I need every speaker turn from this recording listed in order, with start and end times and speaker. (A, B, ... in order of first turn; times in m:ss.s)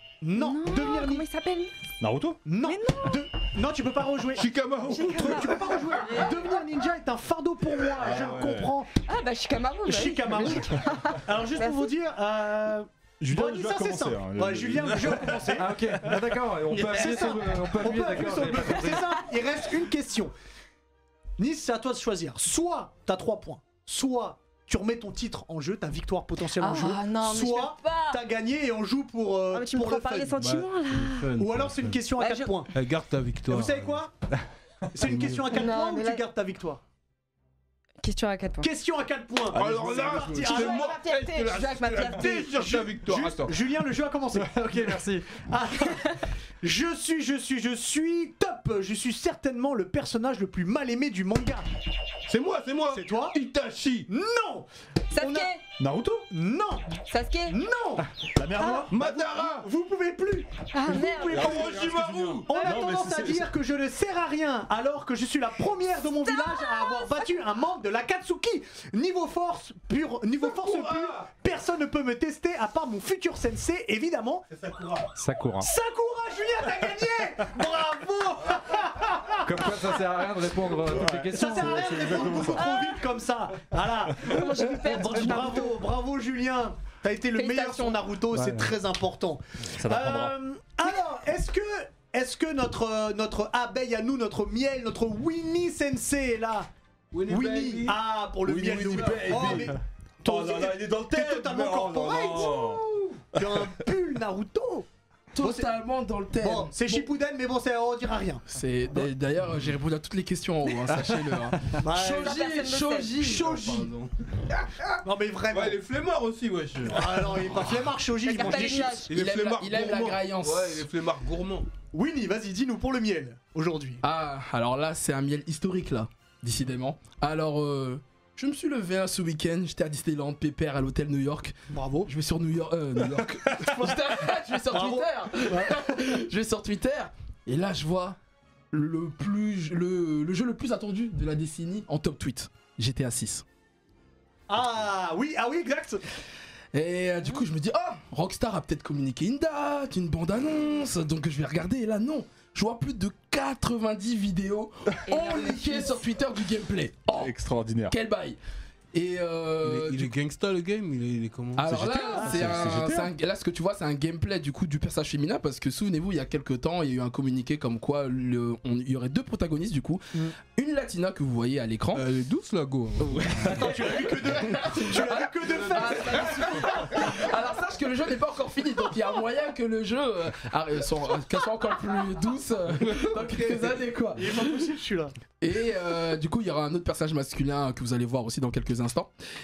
0:00.2-0:01.2 A
0:00.3-0:01.7 B
0:02.0-0:02.4 C
0:02.5-0:08.9 A
0:02.6-0:03.2 B
0:04.3-0:05.6 D
0:04.9-0:06.6 B
0:07.9-0:08.7 C
0:09.0-0:11.9 B
0:09.9-0:20.3 A
0:13.2-0:15.7 C
0:15.6-0:19.2 E
0:21.4-0:30.4 A
0:26.6-0:28.2 B
0:29.5-0:31.3 B
0:30.3-0:32.0 D
0:31.4-0:32.7 A
0:32.2-0:32.6 B
0:32.7-0:34.0 D
0:33.5-0:34.1 A
0:34.9-0:36.8 A
0:35.0-0:35.5 D
0:35.5-0:36.2 B
0:38.0-0:38.7 B
0:38.6-0:41.0 A
0:39.5-0:43.7 D
0:39.5-0:40.2 C
0:40.4-0:42.7 B
0:42.5-0:51.7 A
0:52.3-0:54.1 D
0:52.9-0:53.4 A
0:54.1-0:55.5 A
0:55.1-0:55.6 B
0:55.8-0:56.3 C
0:56.3-1:01.9 A
0:57.1-0:57.6 B
0:58.3-0:58.9 C
0:58.9-0:59.7 D
1:00.7-1:01.6 B
1:01.3-1:02.7 D
1:01.3-1:03.5 C
1:02.5-1:14.5 A
1:06.3-1:07.3 B
1:10.6-1:11.3 D
1:14.5-1:15.1 D
1:15.2-1:15.7 E
1:15.6-1:20.0 A
1:19.4-1:22.2 E
1:20.8-1:22.7 C
1:21.3-1:36.7 A
1:22.3-1:23.0 B
1:24.2-1:25.8 B
1:27.4-1:28.0 B
1:28.3-1:28.7 E
1:29.7-1:30.4 C
1:37.1-1:39.7 D
1:37.3-1:44.9 A
1:38.5-1:42.8 C
1:43.4-1:43.8 C
1:45.3-1:47.1 F
1:45.4-1:45.7 A
1:46.4-1:48.5 A
1:48.5-1:53.9 F
1:51.8-1:52.4 A
1:52.2-1:53.2 B
1:53.2-1:54.1 D
1:54.8-1:57.8 D
1:55.0-1:55.8 A
1:56.9-1:59.1 A
1:58.2-1:59.1 B
1:59.1-2:01.7 D
1:59.1-2:00.9 F
2:01.9-2:04.0 A
2:04.0-2:11.6 F
2:11.7-2:12.1 A
2:12.1-2:18.2 F
2:13.4-2:16.2 A
2:18.7-2:23.4 F
2:24.5-2:26.0 A
2:26.7-2:37.4 F
2:35.1-2:36.0 B
2:37.2-2:38.0 C
2:37.9-2:38.4 F
2:38.9-2:40.1 F
2:39.6-2:41.9 D
2:41.6-2:52.1 F
2:41.6-2:43.1 C
2:42.2-2:42.5 A
2:51.9-2:53.6 D
2:53.0-2:54.0 F
2:53.4-2:57.2 A
2:54.5-3:04.5 F
3:02.8-3:03.8 D
3:04.2-3:05.2 A
3:05.4-3:09.1 F